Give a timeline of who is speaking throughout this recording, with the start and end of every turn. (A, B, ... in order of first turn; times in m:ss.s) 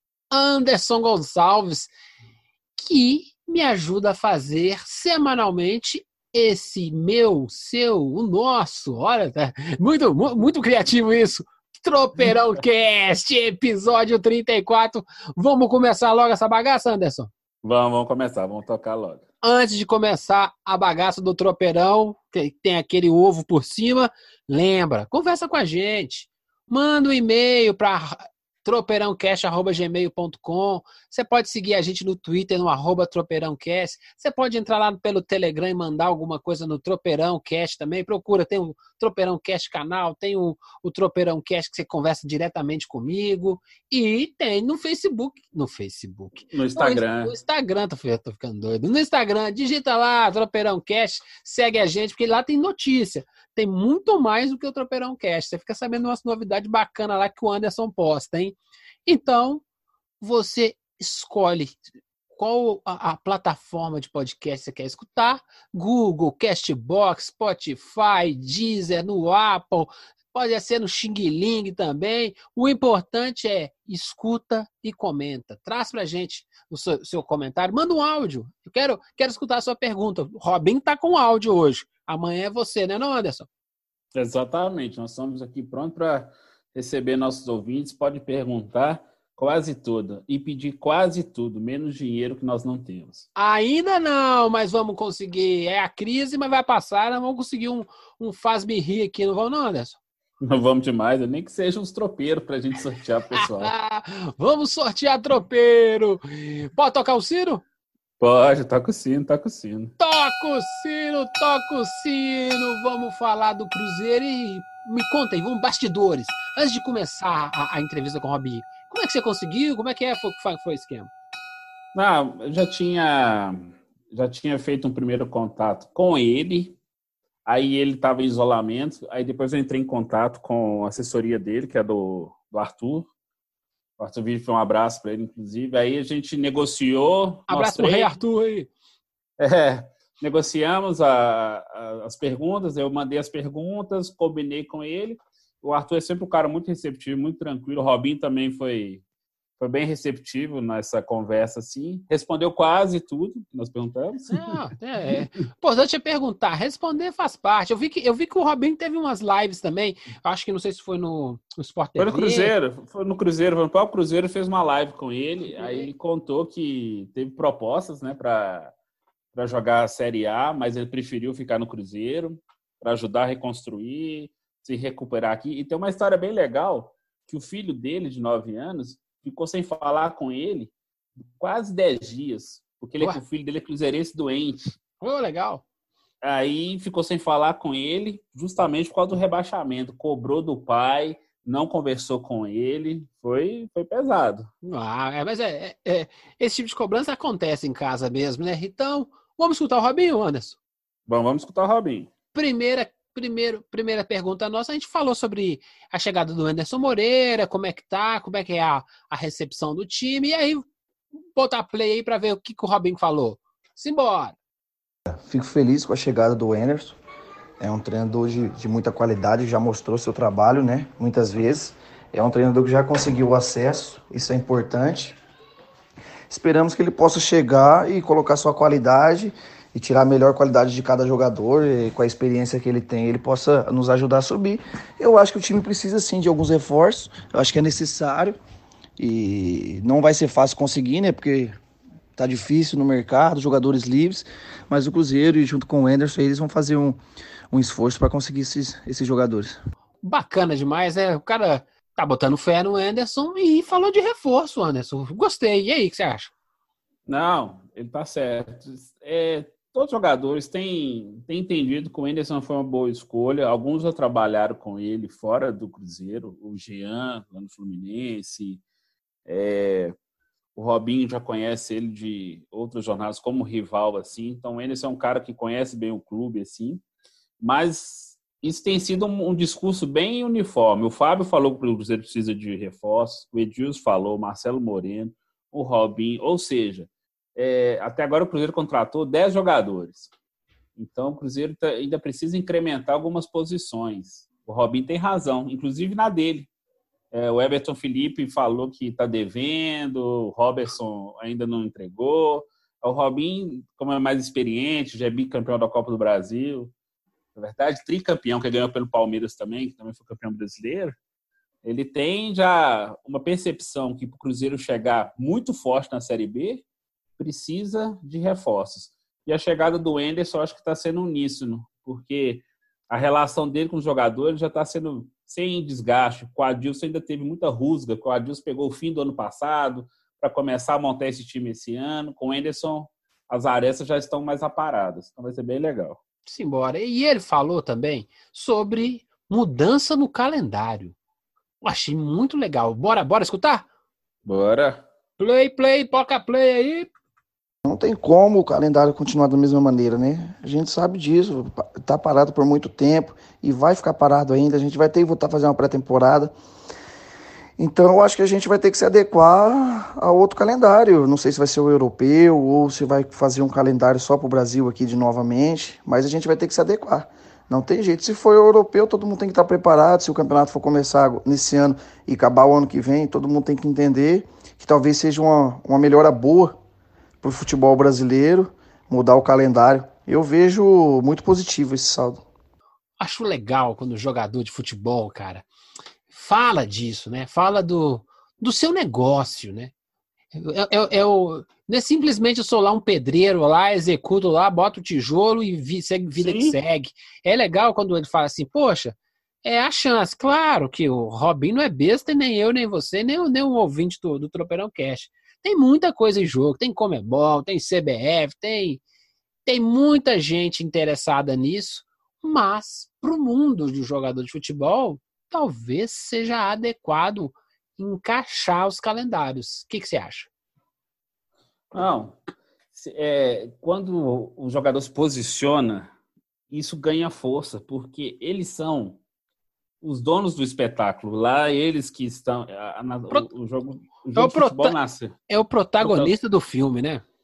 0:00.3-0:01.9 A
0:02.8-0:17.3 A
0:17.6-0:19.2 B
0:19.4-0:59.6 A
0:46.5-0:47.3 B
1:00.2-1:23.5 A
1:24.1-1:33.3 B
1:33.4-1:40.0 A
1:40.4-1:43.7 B
1:43.4-1:47.6 A
1:48.2-1:49.9 B
1:50.0-2:01.1 A
2:01.9-2:06.8 B
2:07.4-2:13.1 B
2:14.0-2:18.1 B
2:17.5-2:18.7 A
2:19.4-2:29.0 B
2:29.6-2:34.5 B
2:34.3-2:42.5 A
2:42.0-2:48.7 B
2:45.5-2:45.9 A
2:49.3-3:00.7 B
3:01.3-3:04.7 B
3:05.0-3:05.6 A
3:06.2-3:14.5 B
3:14.6-3:20.6 A
3:21.1-3:22.1 B
3:22.3-3:30.6 A
3:31.3-3:34.4 A
3:35.2-3:37.0 C
3:37.6-3:45.2 C
3:46.3-3:58.4 C
3:59.0-4:01.6 C
4:02.2-4:07.0 C
4:07.5-4:09.6 C
4:10.0-4:16.3 A
4:17.1-4:28.6 B
4:29.2-4:29.9 B
4:30.6-4:36.8 B
4:37.4-4:50.1 B
4:50.8-4:56.5 B
4:57.1-5:06.7 B
5:07.4-5:11.0 B
5:11.6-5:16.6 B
5:17.2-5:36.0 B
5:36.3-5:40.9 A
5:41.6-5:43.6 A
5:44.2-5:44.8 B
5:45.2-5:46.9 A
5:47.6-5:56.3 C
5:57.6-6:16.6 C
6:17.2-6:22.2 C
6:23.0-6:25.4 A
6:26.1-6:29.7 A
6:30.3-6:48.8 A
6:36.2-6:36.6 B
6:49.4-7:00.3 A
7:01.7-7:02.2 B
7:02.7-7:05.9 B
7:06.5-7:09.0 B
7:09.8-7:15.2 B
7:14.1-7:14.8 A
7:15.3-7:17.0 A
7:15.8-7:16.1 B